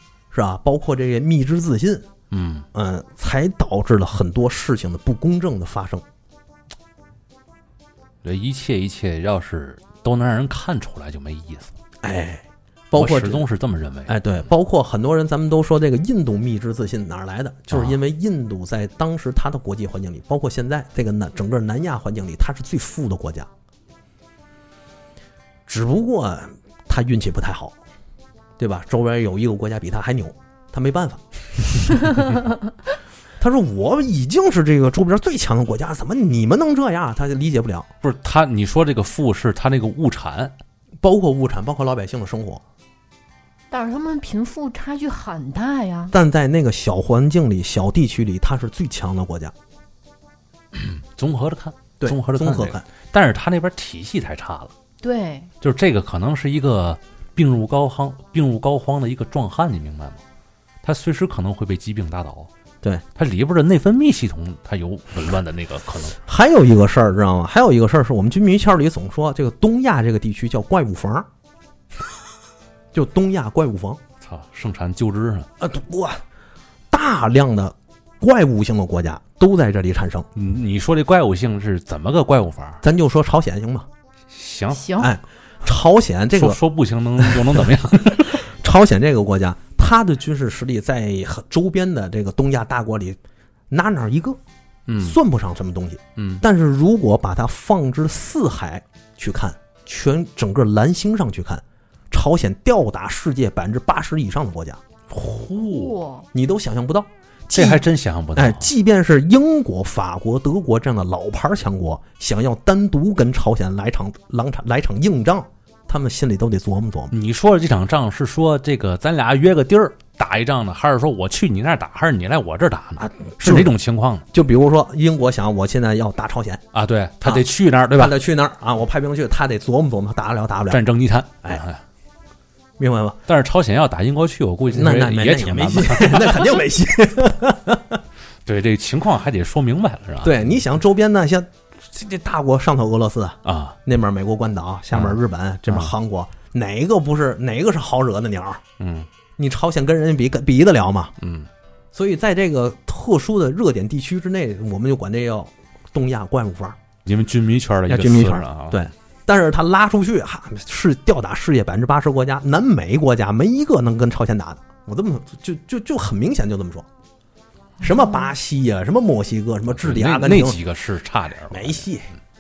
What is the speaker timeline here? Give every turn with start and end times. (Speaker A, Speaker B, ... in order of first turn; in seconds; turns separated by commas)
Speaker A: 0.3-2.1, Speaker B: 2.3-2.7, Speaker A: 2.7-6.0, Speaker B: 8.2-11.7, Speaker A: 12.0-13.4, Speaker B: 13.0-14.1, Speaker A: 14.1-23.5, Speaker B: 17.7-18.0, Speaker A: 25.7-27.8, Speaker A: 28.6-32.4, Speaker A: 33.4-37.9, Speaker B: 38.0-40.5, Speaker A: 41.0-42.6, Speaker C: 43.7-46.1, Speaker A: 46.1-49.5, Speaker B: 50.7-54.7, Speaker A: 52.0-52.8, Speaker C: 55.0-55.5, Speaker B: 55.6-60.2, Speaker B: 60.8-62.5, Speaker B: 63.2-66.2, Speaker A: 66.2-71.3, Speaker A: 72.9-74.0, Speaker B: 74.2-75.5, Speaker A: 75.6-76.2, Speaker A: 76.9-80.3, Speaker B: 80.3-82.8, Speaker A: 82.8-83.9, Speaker B: 84.3-84.9, Speaker C: 84.7-85.1, Speaker A: 85.0-86.6, Speaker B: 86.3-88.4, Speaker A: 87.2-93.2, Speaker A: 93.7-94.4, Speaker B: 94.9-95.2, Speaker A: 95.0-104.8, Speaker B: 96.2-96.4, Speaker B: 105.1-106.0, Speaker C: 105.7-106.3, Speaker A: 106.3-107.8, Speaker B: 107.5-108.7, Speaker A: 108.3-117.1, Speaker B: 117.1-124.2, Speaker A: 123.0-123.7, Speaker A: 124.3-126.6, Speaker B: 126.7-128.2, Speaker A: 127.2-130.8, Speaker B: 130.7-131.8, Speaker A: 132.8-133.2, Speaker B: 133.3-136.5, Speaker A: 134.7-138.0, Speaker B: 138.5-140.5, Speaker A: 140.2-148.6, Speaker B: 143.4-143.8, Speaker B: 144.9-145.9, Speaker B: 148.8-149.1, Speaker A: 149.4-151.1, Speaker B: 151.2-151.5, Speaker A: 151.9-156.8, Speaker B: 157.1-158.8, Speaker A: 157.9-166.9, Speaker A: 167.8-170.6, Speaker B: 169.8-171.9, Speaker A: 171.5-172.1